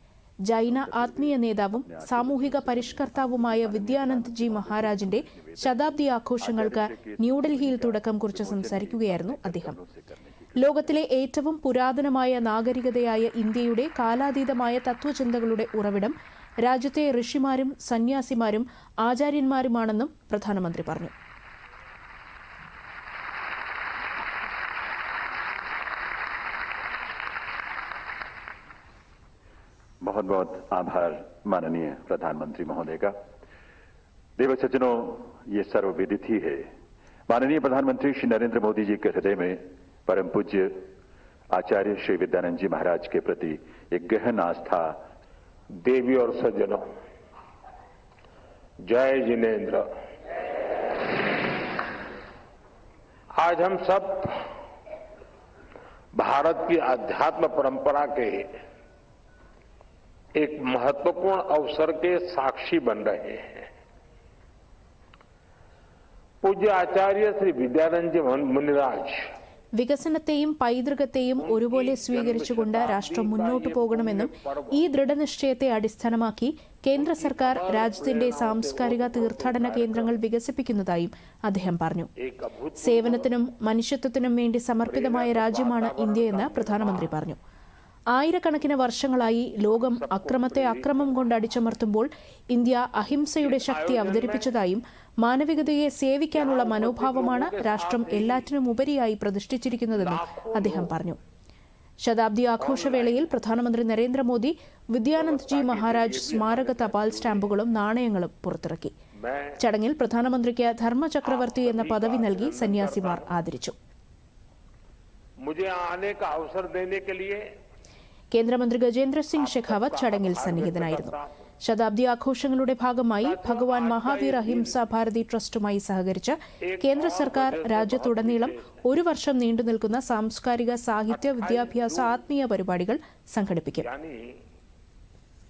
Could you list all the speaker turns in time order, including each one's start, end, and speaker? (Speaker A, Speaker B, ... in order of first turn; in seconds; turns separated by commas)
Speaker A: 0.5-9.8, Speaker B: 0.7-10.9, Speaker A: 10.6-21.1, Speaker B: 30.0-33.1, Speaker B: 34.4-36.7, Speaker B: 37.3-40.9, Speaker B: 41.5-45.0, Speaker C: 45.8-46.8, Speaker C: 48.8-49.9, Speaker C: 53.3-54.5, Speaker C: 56.1-58.5, Speaker C: 60.4-63.7, Speaker C: 66.4-69.3, Speaker A: 69.8-82.1, Speaker C: 71.4-74.9, Speaker C: 77.0-80.2, Speaker C: 82.2-83.3, Speaker A: 82.8-87.4, Speaker C: 84.8-87.2, Speaker A: 88.1-101.2, Speaker C: 89.7-91.3, Speaker C: 93.4-94.5, Speaker C: 96.3-98.5, Speaker C: 99.9-100.9, Speaker A: 102.0-108.9, Speaker C: 102.6-103.2, Speaker C: 105.1-107.5, Speaker C: 109.2-109.6, Speaker A: 109.6-113.8, Speaker C: 111.2-113.3, Speaker C: 115.4-117.4, Speaker A: 118.3-133.9, Speaker C: 119.3-121.4, Speaker C: 123.2-124.8, Speaker C: 126.7-128.8, Speaker C: 131.1-132.2, Speaker C: 133.8-134.4